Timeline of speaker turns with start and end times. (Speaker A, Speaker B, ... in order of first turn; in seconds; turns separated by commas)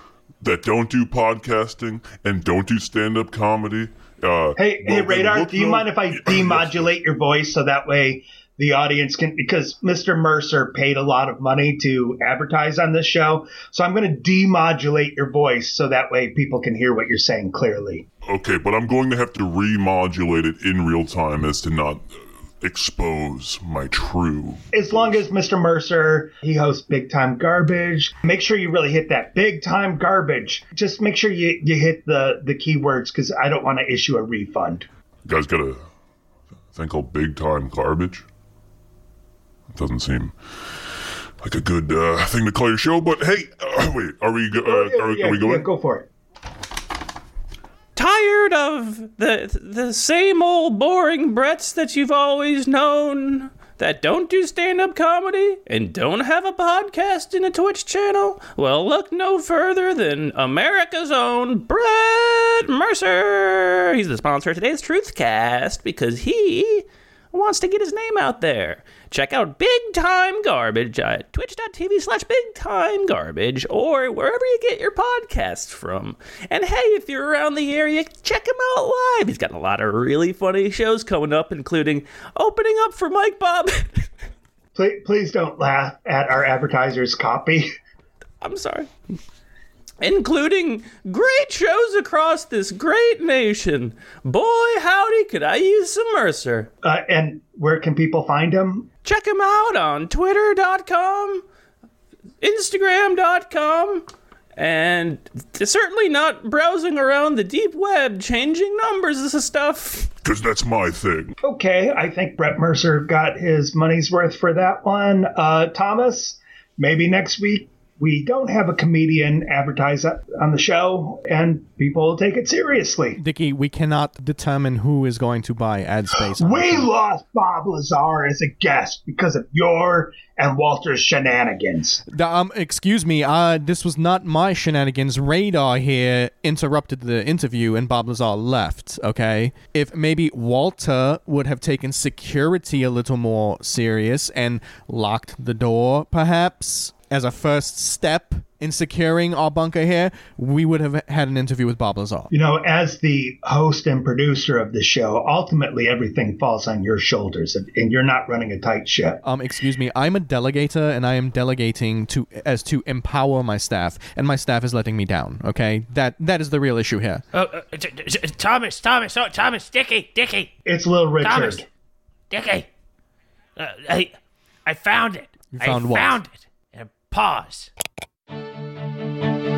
Speaker A: 0.4-6.9, Speaker B: 4.6-18.1, Speaker A: 18.2-22.1, Speaker A: 22.6-25.1, Speaker B: 24.7-34.9, Speaker A: 35.2-35.8, Speaker A: 36.7-38.2, Speaker A: 39.7-45.7, Speaker B: 44.6-46.1, Speaker C: 48.0-84.0, Speaker B: 84.7-87.7, Speaker C: 88.4-88.9, Speaker C: 90.0-96.7, Speaker B: 96.8-98.9, Speaker C: 99.0-101.4, Speaker C: 102.4-104.0, Speaker C: 104.5-110.1, Speaker A: 110.2-111.4, Speaker B: 111.4-123.2, Speaker D: 123.2-126.9, Speaker B: 126.3-132.0, Speaker D: 132.1-152.3, Speaker B: 152.3-159.2, Speaker D: 159.2-167.2, Speaker E: 167.3-170.6, Speaker B: 170.7-171.6, Speaker E: 171.2-171.6, Speaker E: 172.3-172.7, Speaker E: 173.6-174.1, Speaker E: 174.7-177.7, Speaker D: 175.5-176.2